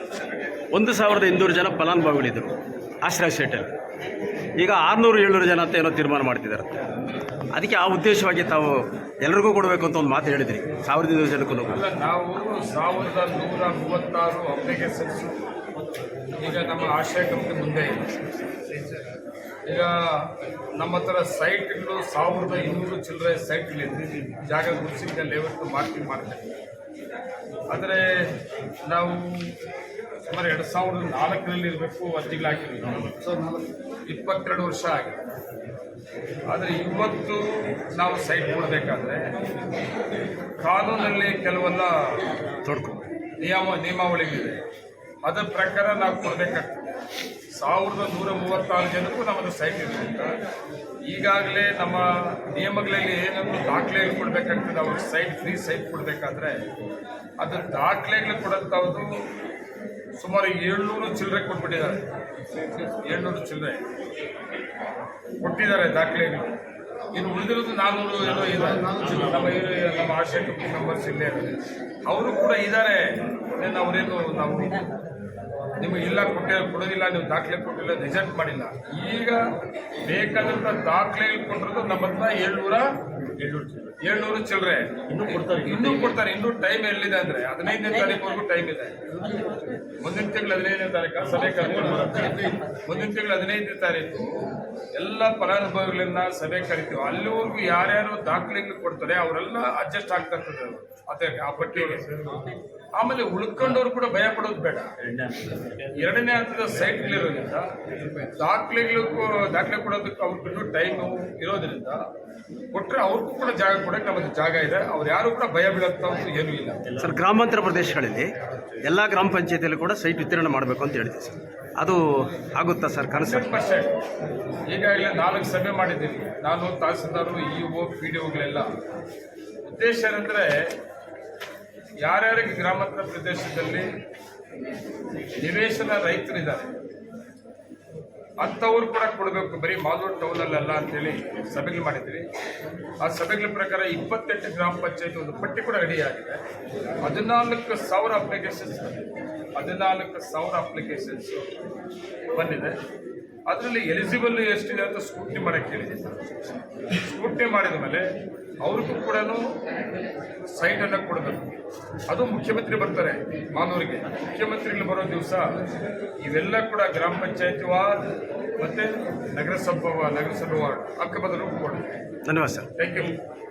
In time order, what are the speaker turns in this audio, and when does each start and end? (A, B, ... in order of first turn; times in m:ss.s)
0:00.7-0:03.7 A
0:04.6-0:06.8 A
0:07.5-0:11.8 A
0:11.6-0:15.4 B
0:16.4-0:18.0 B
0:19.6-0:20.0 B
0:20.8-0:26.5 B
0:27.7-0:28.0 B
0:28.9-0:29.6 B
0:30.2-0:33.1 B
0:34.1-0:35.2 B
0:36.5-0:39.2 B
0:40.6-0:42.2 B
0:42.6-0:43.1 A
0:43.4-0:44.6 B
0:45.2-0:46.8 B
0:47.6-0:50.3 B
0:51.1-0:56.6 B
0:57.4-0:59.1 B
1:00.2-1:02.0 B
1:02.8-1:03.8 B
1:05.4-1:06.6 B
1:07.1-1:11.6 B
1:12.1-1:14.8 B
1:15.8-1:19.4 B
1:20.0-1:22.8 B
1:23.4-1:23.9 A
1:24.0-1:28.9 B
1:25.1-1:26.2 A
1:30.0-1:34.3 B
1:31.5-1:32.5 A
1:35.0-1:42.1 B
1:43.0-1:44.9 B
1:45.9-1:52.0 B
1:52.7-1:56.9 B
1:57.0-2:03.5 A
2:03.2-2:03.9 B
2:04.7-2:08.7 B
2:09.6-2:10.5 B
2:12.0-2:13.9 B
2:15.4-2:16.7 B
2:18.4-2:22.3 B
2:23.0-2:26.4 B
2:27.0-2:31.4 B
2:32.3-2:32.8 B
2:33.5-2:36.2 B
2:37.0-2:38.0 B
2:38.6-2:39.4 B
2:40.5-2:41.5 B
2:42.1-2:45.5 B
2:46.2-2:48.0 B
2:48.6-2:51.9 B
2:52.2-2:52.7 A
2:52.8-2:53.1 B